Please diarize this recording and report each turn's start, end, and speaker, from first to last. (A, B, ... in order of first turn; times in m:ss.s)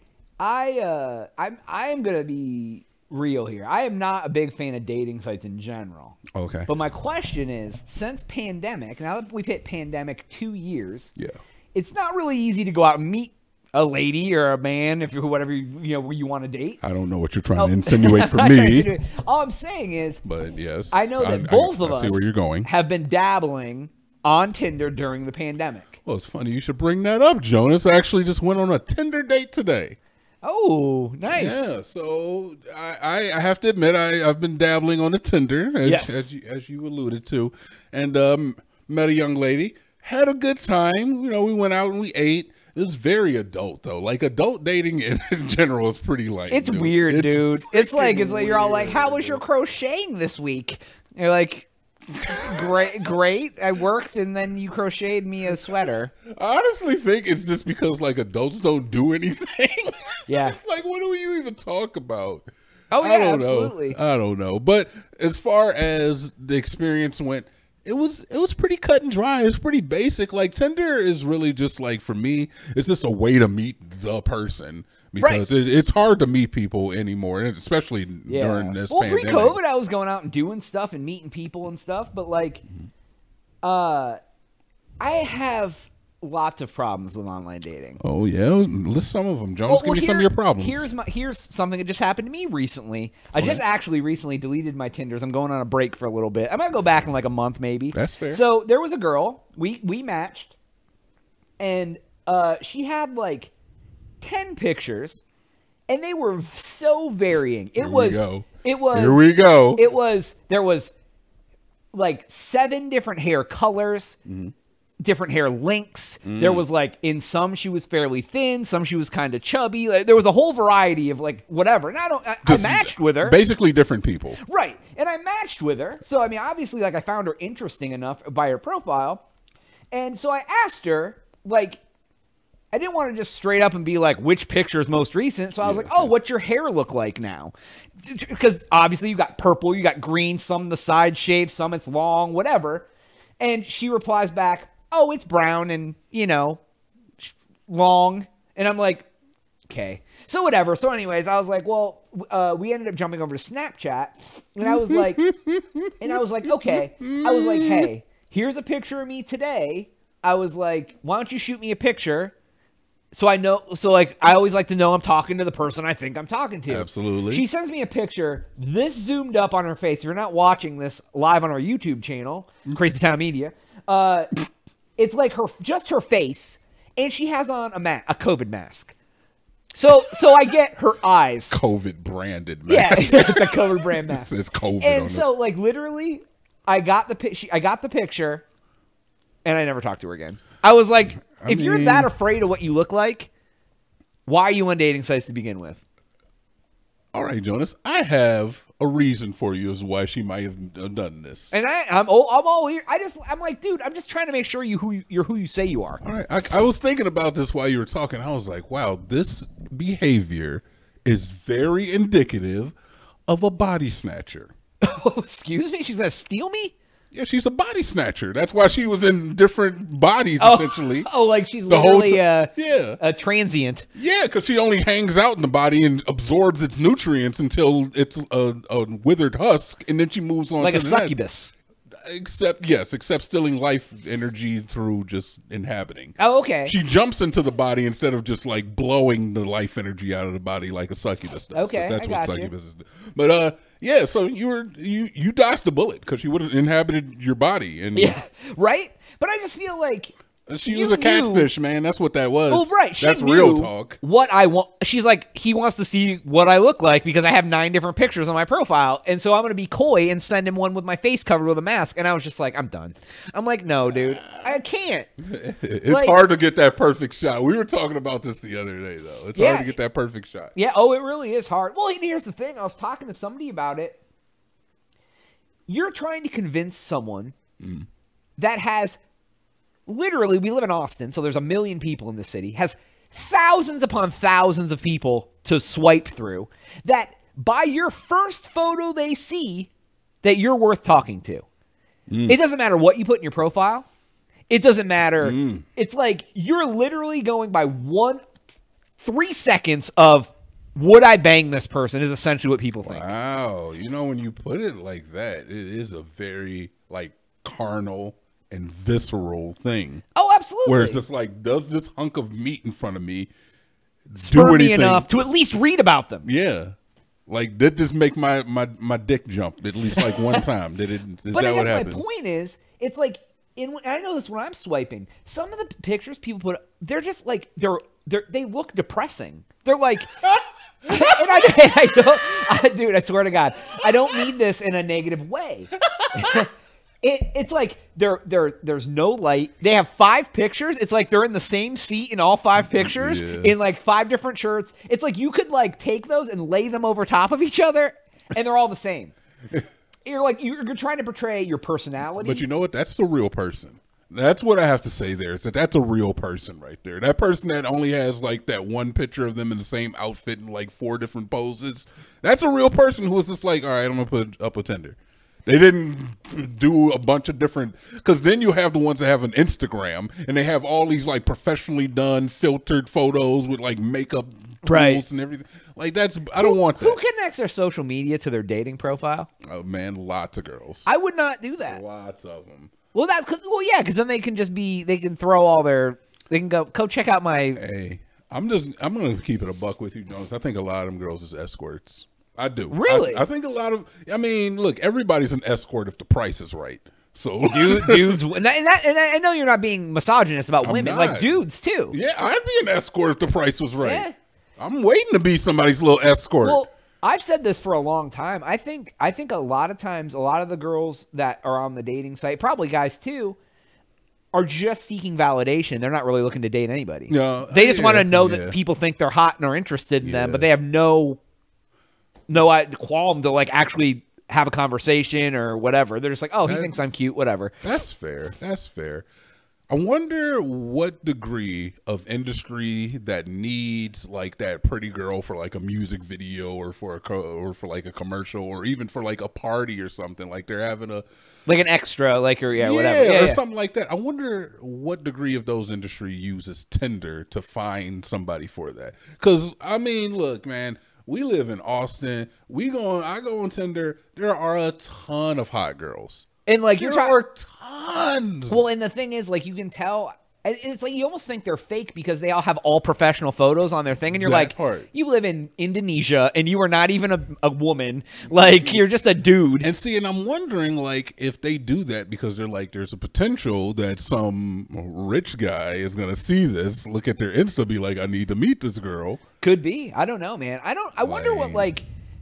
0:00.4-0:11.1 A
0:06.4-0:06.7 B
0:11.7-0:16.8 A
0:16.8-0:18.9 B
0:17.6-0:20.2 A
0:20.2-0:22.7 B
0:20.9-0:26.0 A
0:26.0-0:30.0 B
0:30.4-0:31.7 A
0:31.3-0:49.4 B
0:35.8-0:36.3 A
0:46.5-0:51.7 A
0:52.2-0:56.1 A
0:52.2-0:52.8 B
0:56.3-1:02.5 B
1:00.3-1:00.6 A
1:02.9-1:04.0 A
1:03.0-1:19.6 B
1:18.3-1:22.6 A
1:23.6-1:24.2 A
1:25.0-1:28.0 A
1:28.0-1:30.9 B
1:29.7-1:40.6 A
1:33.4-1:33.6 B
1:37.9-1:38.4 B
1:41.6-1:43.5 A
1:44.2-1:45.2 A
1:45.9-1:50.9 A
1:47.8-1:49.9 B
1:51.9-1:54.2 A
1:54.3-1:54.5 B
1:55.0-2:03.4 A
1:56.2-1:56.6 B
2:02.4-2:04.4 B
2:04.4-2:09.2 A
2:09.9-2:11.8 A
2:12.7-2:22.9 A
2:15.6-2:16.1 B
2:23.4-2:26.6 A
2:27.2-2:29.1 A
2:29.7-2:35.3 A
2:34.6-2:36.2 B
2:36.0-2:42.3 A
2:36.7-2:37.9 B
2:43.1-2:54.3 A
2:46.7-2:47.4 B
2:55.0-2:59.0 A
2:59.7-3:01.6 A
3:01.5-3:05.2 B
3:02.7-3:04.3 A
3:04.8-3:08.4 A
3:09.4-3:13.3 A
3:11.4-3:12.1 B
3:14.3-3:15.8 A
3:17.1-3:21.5 B
3:21.5-3:26.0 A
3:26.0-3:32.7 B
3:33.3-3:34.5 B
3:34.8-3:36.8 A
3:37.1-3:41.1 B
3:40.4-3:43.9 A
3:41.7-3:43.0 B
3:44.0-3:51.2 B
3:50.6-3:51.5 A
3:52.0-4:08.2 B
3:56.2-3:56.7 A
4:01.5-4:02.5 A
4:08.0-4:10.1 A
4:10.5-4:14.0 B
4:10.7-4:11.5 A
4:12.5-4:25.1 A
4:23.9-4:24.5 B
4:25.2-4:30.6 B
4:25.9-4:26.2 A
4:29.4-4:29.8 A
4:30.6-4:34.0 A
4:35.7-4:37.3 A
4:37.6-4:37.9 B
4:38.4-4:39.0 A
4:39.9-4:49.7 A
4:50.2-4:51.4 A
4:52.1-4:52.4 B
4:52.3-4:53.9 A
4:54.5-4:58.2 A
4:55.2-4:55.6 B
4:59.0-5:03.1 A
5:02.9-5:10.0 B
5:10.2-5:11.0 A
5:10.7-5:13.3 B
5:14.1-5:15.1 B
5:14.2-5:16.3 A
5:16.2-5:16.7 B
5:17.3-5:22.0 B
5:19.9-5:20.4 A
5:21.3-5:30.2 A
5:30.9-5:36.5 A
5:37.0-5:49.1 A
5:42.7-5:43.6 B
5:50.1-5:52.5 A
5:52.2-6:17.0 B
6:14.6-6:15.0 A
6:16.4-6:19.3 A
6:19.4-6:20.9 B
6:20.8-6:21.8 A
6:21.6-6:22.7 B
6:22.9-6:27.6 A
6:27.6-6:38.2 B
6:32.7-6:33.2 A
6:37.5-6:42.0 A
6:40.6-6:41.4 B
6:41.9-6:44.1 B
6:43.8-6:44.1 A
6:44.6-6:46.6 B
6:46.4-6:53.4 A
6:54.3-7:01.2 A
6:57.1-6:58.6 B
7:00.0-7:00.5 B
7:02.3-7:07.5 A
7:06.4-7:06.8 B
7:07.6-7:09.1 B
7:09.7-7:21.1 B
7:21.5-7:23.4 A
7:22.6-7:36.2 B
7:36.5-7:37.2 A
7:36.8-7:38.6 B
7:38.5-7:49.7 A
7:44.1-7:44.9 B
7:49.6-7:59.2 B
7:59.4-8:01.9 A
8:01.0-8:01.7 B